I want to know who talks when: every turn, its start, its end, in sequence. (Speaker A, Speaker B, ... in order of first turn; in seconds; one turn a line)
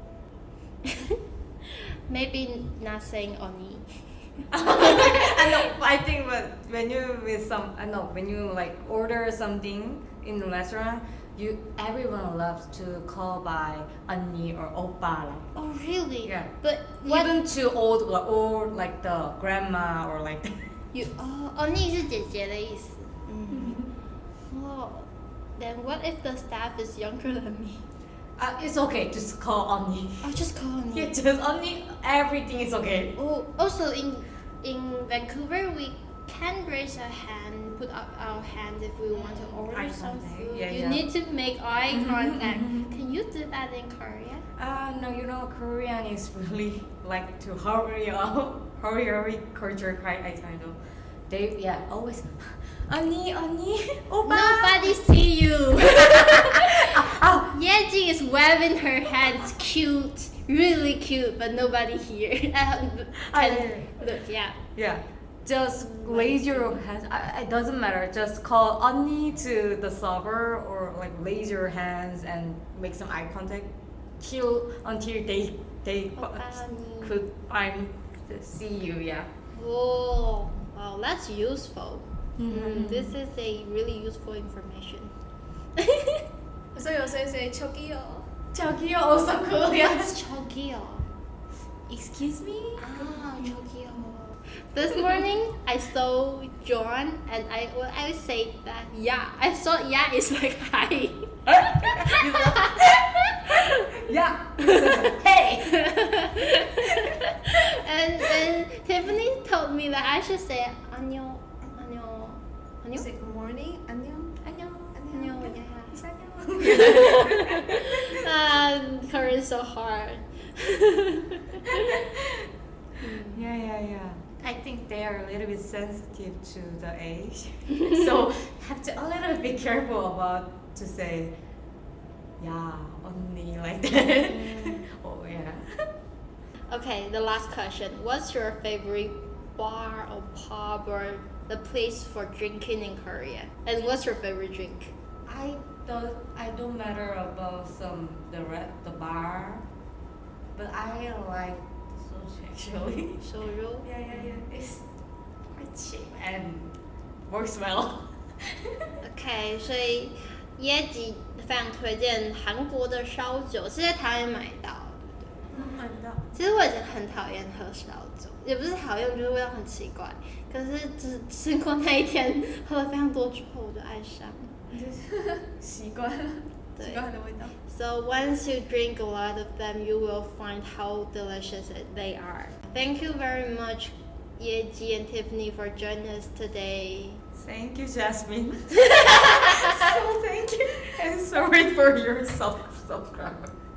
Speaker A: 0.8-5.7
Speaker B: 4.5-15.5
Speaker A: 15.6-17.4
Speaker B: 16.2-20.6
Speaker A: 20.9-23.9
Speaker B: 23.5-23.9
Speaker A: 24.5-27.9
Speaker B: 28.4-30.4
Speaker A: 30.2-31.1
Speaker B: 30.9-33.1
Speaker A: 33.1-44.4
Speaker B: 39.2-41.0
Speaker B: 41.9-42.9
Speaker B: 44.5-55.0
Speaker A: 54.2-64.6
Speaker B: 55.8-57.5
Speaker B: 63.2-64.0
Speaker B: 64.8-79.3
Speaker A: 76.1-77.2
Speaker A: 79.5-85.1
Speaker B: 82.4-83.1
Speaker A: 85.8-86.2
Speaker C: 86.7-88.3
Speaker B: 88.5-90.2
Speaker A: 89.7-91.1
Speaker B: 91.9-93.2
Speaker A: 92.8-104.0
Speaker B: 101.5-107.5
Speaker A: 104.6-105.1
Speaker A: 105.6-113.1
Speaker C: 112.9-117.1
Speaker B: 114.4-115.0
Speaker A: 115.1-116.0
Speaker B: 116.5-118.2
Speaker A: 116.6-122.0
Speaker B: 121.7-122.5
Speaker A: 123.0-123.5
Speaker B: 123.3-131.3
Speaker B: 132.4-135.9
Speaker A: 134.4-134.8
Speaker A: 136.7-144.9
Speaker B: 145.2-149.7
Speaker B: 150.5-153.3
Speaker A: 153.2-153.9
Speaker C: 153.8-154.8
Speaker B: 153.9-154.7
Speaker B: 155.5-158.9
Speaker A: 159.0-165.3
Speaker C: 165.5-166.3
Speaker A: 166.3-174.5
Speaker C: 174.7-177.5
Speaker A: 176.8-177.0
Speaker A: 177.6-187.2
Speaker B: 187.3-193.5
Speaker A: 188.9-189.8